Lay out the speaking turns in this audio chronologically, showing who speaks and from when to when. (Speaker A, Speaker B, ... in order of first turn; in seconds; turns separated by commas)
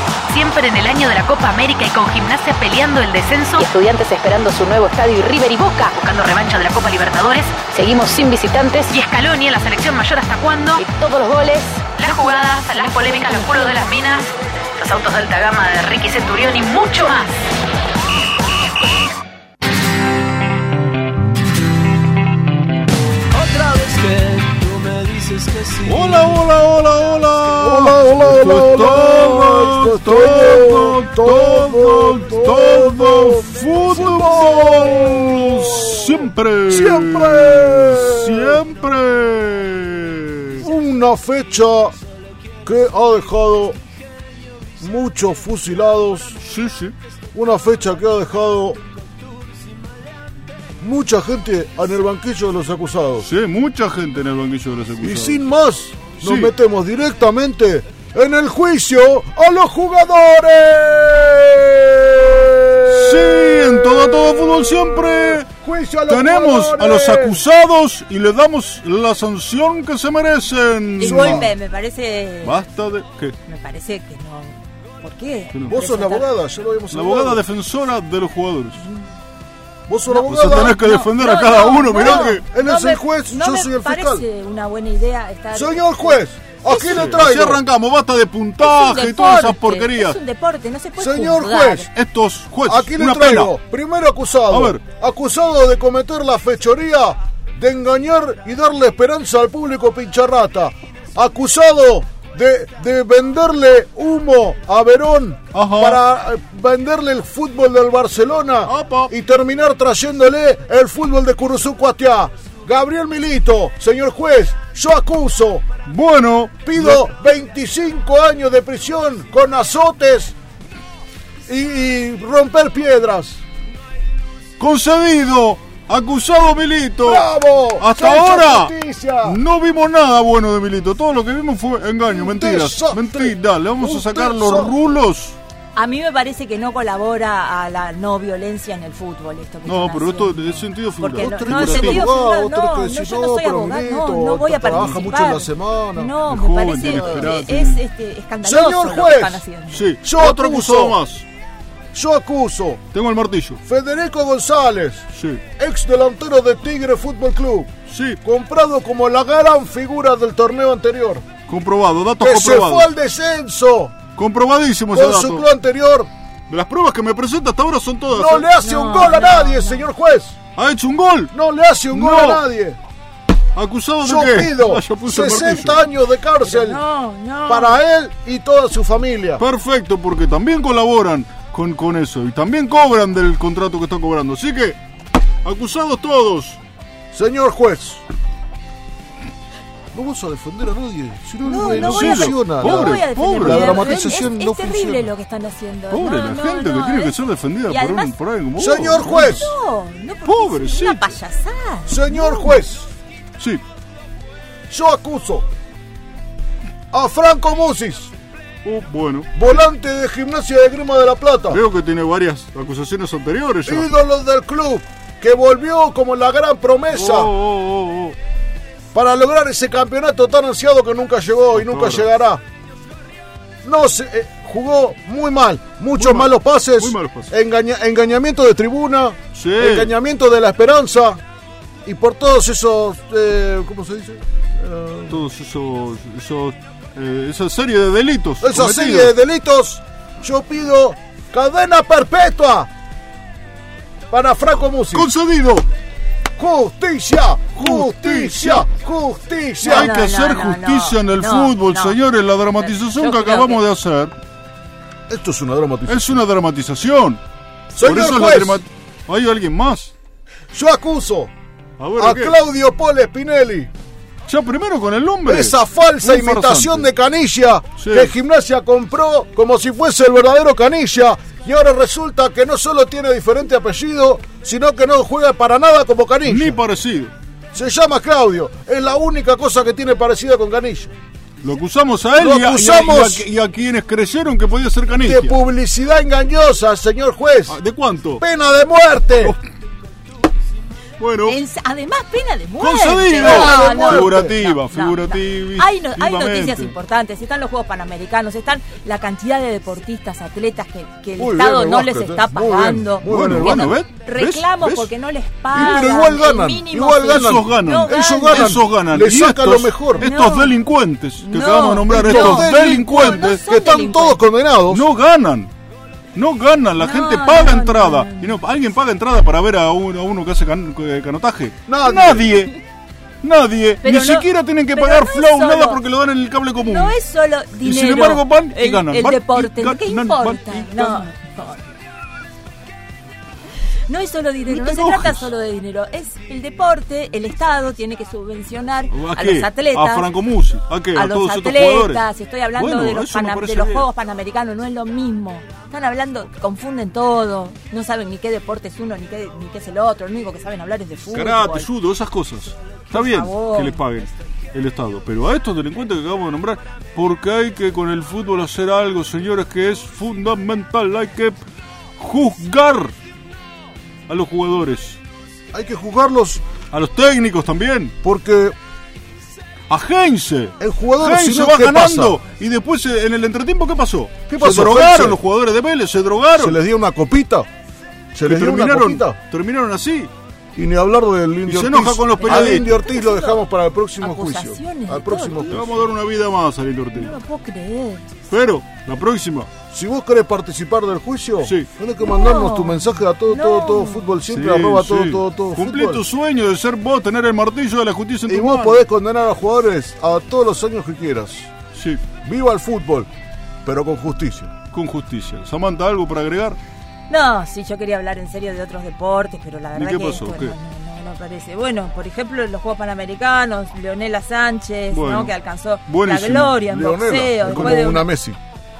Speaker A: 0.3-7.7, Speaker B: 3.8-5.2, Speaker B: 7.7-8.7, Speaker A: 8.2-10.9, Speaker B: 10.9-11.8, Speaker A: 11.9-17.4, Speaker C: 23.3-26.4, Speaker D: 25.8-40.7, Speaker E: 27.6-38.6, Speaker E: 40.6-42.0, Speaker E: 42.6-43.8, Speaker E: 44.8-46.4, Speaker D: 46.4-46.9, Speaker E: 47.3-48.8, Speaker E: 50.8-53.3, Speaker D: 53.2-55.5, Speaker E: 55.0-67.4, Speaker D: 56.2-56.5, Speaker D: 62.9-65.5, Speaker D: 66.1-71.5, Speaker F: 71.0-72.6, Speaker E: 71.0-71.5, Speaker D: 72.4-73.4, Speaker F: 73.5-76.3, Speaker E: 75.7-77.4, Speaker D: 76.9-78.8, Speaker F: 78.8-79.1, Speaker E: 79.9-80.8, Speaker F: 80.1-87.1, Speaker D: 80.3-82.5, Speaker E: 81.9-84.3, Speaker E: 85.5-87.6, Speaker D: 86.8-90.2, Speaker F: 88.6-91.9, Speaker E: 91.0-91.9, Speaker D: 91.9-93.5, Speaker E: 92.6-115.7, Speaker D: 94.5-94.8, Speaker D: 105.5-106.0, Speaker D: 108.7-109.1, Speaker D: 115.8-117.1, Speaker E: 116.6-120.3, Speaker E: 121.5-123.4, Speaker D: 124.6-135.4, Speaker E: 127.0-129.4, Speaker E: 132.1-134.8, Speaker F: 135.8-149.9, Speaker D: 139.7-142.1, Speaker E: 141.1-146.2, Speaker D: 144.6-145.0, Speaker D: 146.3-147.8, Speaker E: 148.4-149.4, Speaker D: 149.7-151.2, Speaker E: 150.0-151.0, Speaker E: 151.9-152.8, Speaker D: 152.9-153.6, Speaker E: 153.6-157.7, Speaker D: 155.1-155.4, Speaker D: 157.9-158.2, Speaker E: 158.2-161.2, Speaker D: 161.5-162.9, Speaker E: 162.2-164.0, Speaker D: 164.2-165.4, Speaker E: 164.9-166.1, Speaker D: 166.5-168.5, Speaker E: 168.1-170.4, Speaker F: 168.6-169.9, Speaker D: 170.6-171.3, Speaker E: 171.3-172.8, Speaker D: 171.9-172.4, Speaker D: 173.6-175.8, Speaker E: 174.0-176.8, Speaker F: 176.4-177.8, Speaker E: 177.5-179.4, Speaker D: 179.4-184.8, Speaker D: 185.4-186.6, Speaker E: 187.1-188.0, Speaker E: 189.9-195.1, Speaker F: 191.4-197.2, Speaker D: 191.7-194.2, Speaker D: 195.9-199.5, Speaker F: 197.7-198.1, Speaker E: 198.6-199.5, Speaker F: 199.0-202.6, Speaker D: 200.2-201.2, Speaker E: 201.9-202.9, Speaker E: 204.7-205.5, Speaker E: 206.9-208.1, Speaker D: 208.7-209.7, Speaker E: 209.3-211.6, Speaker D: 211.5-213.9, Speaker E: 213.7-217.3, Speaker D: 216.9-218.2, Speaker E: 218.9-222.4, Speaker D: 221.5-222.1, Speaker E: 223.6-231.2, Speaker D: 226.0-227.3, Speaker D: 229.3-229.9, Speaker E: 231.8-235.3, Speaker D: 235.1-239.1, Speaker E: 238.4-242.7, Speaker E: 244.1-245.1, Speaker D: 244.9-245.7, Speaker E: 246.4-249.9, Speaker D: 247.6-248.7, Speaker F: 249.6-252.0, Speaker D: 249.6-254.2, Speaker F: 252.6-253.6, Speaker E: 255.1-256.2, Speaker D: 255.9-257.2, Speaker E: 257.7-258.6, Speaker D: 257.8-259.9, Speaker E: 260.5-261.3, Speaker D: 261.8-262.4, Speaker E: 262.0-263.7, Speaker D: 264.3-266.9, Speaker E: 265.2-276.6, Speaker D: 267.8-268.1, Speaker D: 276.3-277.1, Speaker E: 277.5-280.9, Speaker D: 281.4-285.4, Speaker E: 282.1-283.3, Speaker E: 284.9-287.6, Speaker D: 287.5-288.2, Speaker E: 288.2-289.4, Speaker D: 291.0-291.4, Speaker F: 291.2-308.6, Speaker D: 292.6-296.8, Speaker E: 293.2-294.4, Speaker E: 301.2-303.8, Speaker D: 303.1-304.9, Speaker E: 305.5-310.1, Speaker D: 305.5-305.9, Speaker D: 307.1-313.4, Speaker F: 310.0-310.6, Speaker F: 311.2-314.2, Speaker E: 311.9-314.9, Speaker D: 314.7-315.5, Speaker D: 316.1-322.6, Speaker F: 316.8-318.4, Speaker E: 321.7-322.4, Speaker D: 323.2-327.0, Speaker F: 323.8-325.8, Speaker F: 326.6-331.7, Speaker D: 327.6-331.1, Speaker F: 333.9-340.1, Speaker D: 334.5-335.3, Speaker D: 338.9-343.9, Speaker F: 340.9-351.7, Speaker D: 351.1-361.4, Speaker F: 352.9-353.8, Speaker D: 362.0-362.9, Speaker D: 364.1-365.0, Speaker E: 365.5-366.4, Speaker D: 366.7-367.9, Speaker E: 368.0-368.6, Speaker D: 369.7-376.6, Speaker E: 370.6-372.2, Speaker E: 374.3-375.2, Speaker E: 376.4-377.5, Speaker E: 378.1-379.2, Speaker D: 378.3-380.1, Speaker E: 380.6-385.9, Speaker D: 381.5-382.8, Speaker F: 382.2-383.4, Speaker F: 384.0-385.7, Speaker D: 385.5-387.1, Speaker F: 386.9-388.1, Speaker D: 388.3-389.5, Speaker E: 389.7-396.1, Speaker D: 391.4-391.7, Speaker F: 392.0-394.2, Speaker D: 394.3-398.8, Speaker E: 398.3-401.5, Speaker D: 401.7-402.0, Speaker E: 402.2-403.1, Speaker E: 403.6-404.5, Speaker D: 404.7-406.6, Speaker F: 407.1-418.1, Speaker D: 409.8-410.6, Speaker D: 414.9-415.3, Speaker D: 415.9-416.6, Speaker E: 416.7-418.4, Speaker D: 417.5-417.8